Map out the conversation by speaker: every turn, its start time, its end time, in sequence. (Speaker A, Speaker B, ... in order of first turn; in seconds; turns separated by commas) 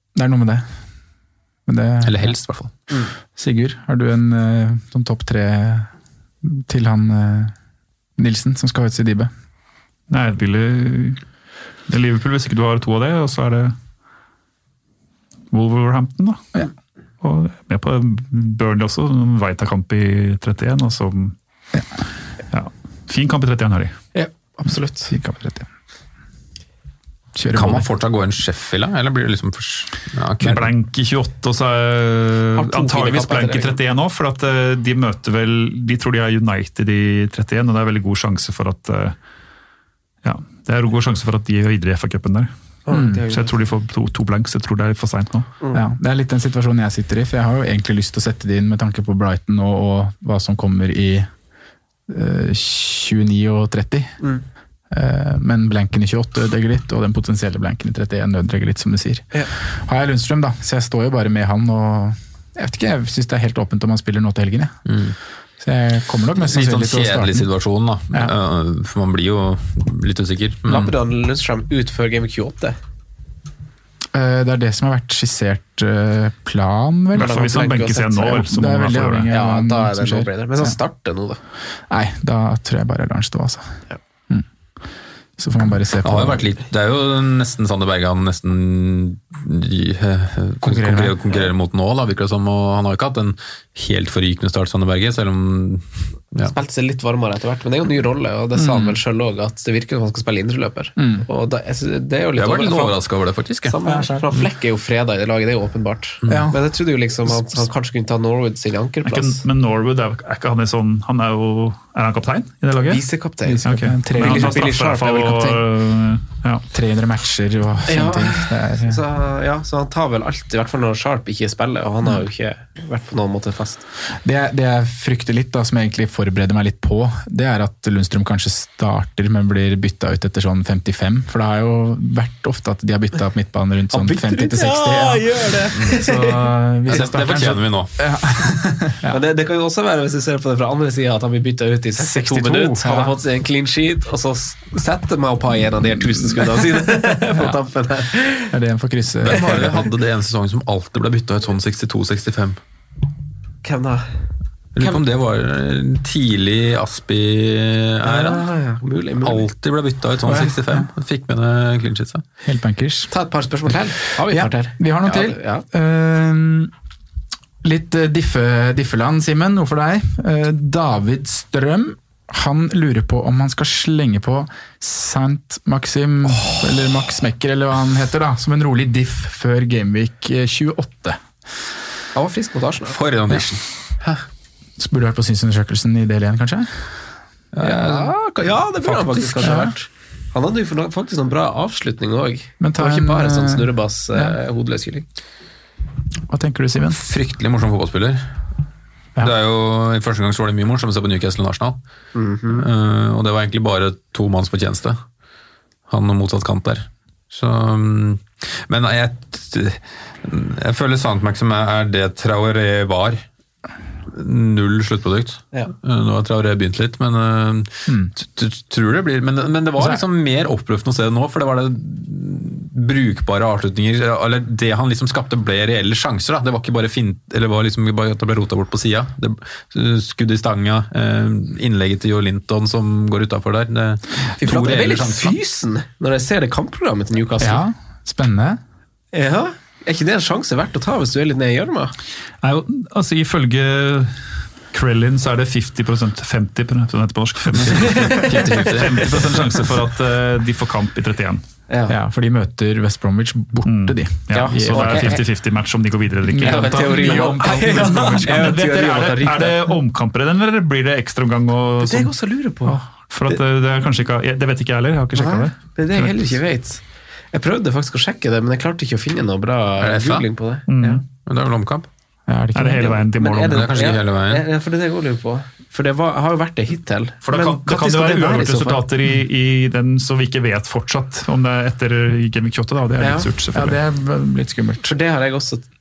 Speaker A: 0.1-0.7, Speaker A: 1.7-2.4, Speaker B: 2.0-2.7, Speaker A: 3.4-5.9, Speaker A: 6.4-7.5, Speaker A: 8.2-9.3, Speaker C: 10.1-11.2, Speaker C: 11.9-13.8, Speaker C: 15.5-16.4, Speaker C: 17.2-21.4, Speaker C: 22.5-23.9, Speaker D: 24.1-25.1, Speaker A: 25.1-25.7, Speaker A: 27.4-27.9, Speaker B: 27.5-30.7, Speaker C: 30.4-39.2, Speaker D: 32.6-33.8, Speaker C: 40.2-42.5, Speaker D: 42.9-43.5, Speaker A: 42.9-43.2, Speaker C: 43.3-45.5, Speaker A: 45.7-51.3, Speaker A: 52.1-54.2, Speaker A: 54.9-64.8, Speaker B: 64.9-65.2, Speaker A: 65.6-67.5, Speaker B: 66.4-70.9, Speaker D: 70.7-72.8, Speaker A: 74.1-77.5, Speaker C: 77.2-79.3, Speaker D: 77.2-78.3, Speaker A: 78.1-80.8, Speaker D: 79.3-81.4, Speaker A: 81.9-83.7, Speaker A: 85.4-86.5, Speaker B: 86.0-96.5, Speaker A: 90.6-91.2, Speaker D: 96.5-103.0, Speaker A: 98.6-99.0, Speaker A: 101.0-101.3, Speaker B: 102.4-103.8, Speaker D: 103.7-109.4, Speaker A: 103.8-104.3, Speaker A: 106.3-106.6, Speaker C: 109.0-113.0, Speaker D: 112.9-115.6, Speaker A: 113.5-114.8, Speaker C: 113.6-116.7, Speaker A: 116.7-119.0, Speaker D: 117.9-123.8, Speaker A: 124.2-139.2, Speaker D: 133.9-136.5, Speaker B: 136.9-137.9, Speaker D: 139.1-148.5, Speaker A: 142.0-143.2, Speaker A: 148.5-149.8, Speaker B: 149.2-152.6, Speaker D: 149.3-149.9, Speaker D: 153.6-154.1, Speaker B: 154.8-158.5, Speaker D: 158.0-159.5, Speaker B: 159.2-162.2, Speaker A: 160.2-160.9, Speaker A: 162.4-163.1, Speaker D: 163.1-165.7, Speaker A: 164.2-166.7, Speaker A: 167.6-181.2, Speaker D: 182.2-183.0, Speaker B: 182.9-184.1, Speaker A: 184.8-186.9, Speaker B: 187.5-188.1, Speaker D: 187.6-195.1, Speaker A: 189.2-189.7, Speaker A: 192.6-194.4, Speaker A: 196.3-197.0, Speaker B: 196.9-198.3, Speaker B: 199.2-201.8, Speaker D: 202.1-202.7, Speaker B: 202.5-205.0, Speaker B: 205.9-213.2, Speaker B: 214.1-235.4, Speaker A: 219.8-220.0, Speaker D: 234.4-237.6, Speaker A: 237.4-238.6, Speaker D: 239.1-241.9, Speaker C: 242.4-251.4, Speaker B: 247.6-249.2, Speaker D: 247.8-248.6, Speaker D: 251.7-252.0, Speaker A: 251.9-255.2, Speaker C: 253.7-262.1, Speaker D: 254.3-255.2, Speaker A: 256.3-258.6, Speaker D: 256.4-259.7, Speaker D: 261.8-262.8, Speaker C: 263.1-266.4, Speaker D: 265.2-266.8, Speaker D: 267.3-271.0, Speaker B: 269.8-270.3, Speaker C: 270.7-271.0, Speaker B: 271.2-271.9, Speaker A: 272.3-273.0, Speaker C: 272.6-273.8, Speaker D: 273.1-278.8, Speaker B: 273.5-274.4, Speaker C: 277.2-283.8, Speaker D: 283.0-283.3, Speaker A: 283.5-284.9, Speaker D: 284.8-285.6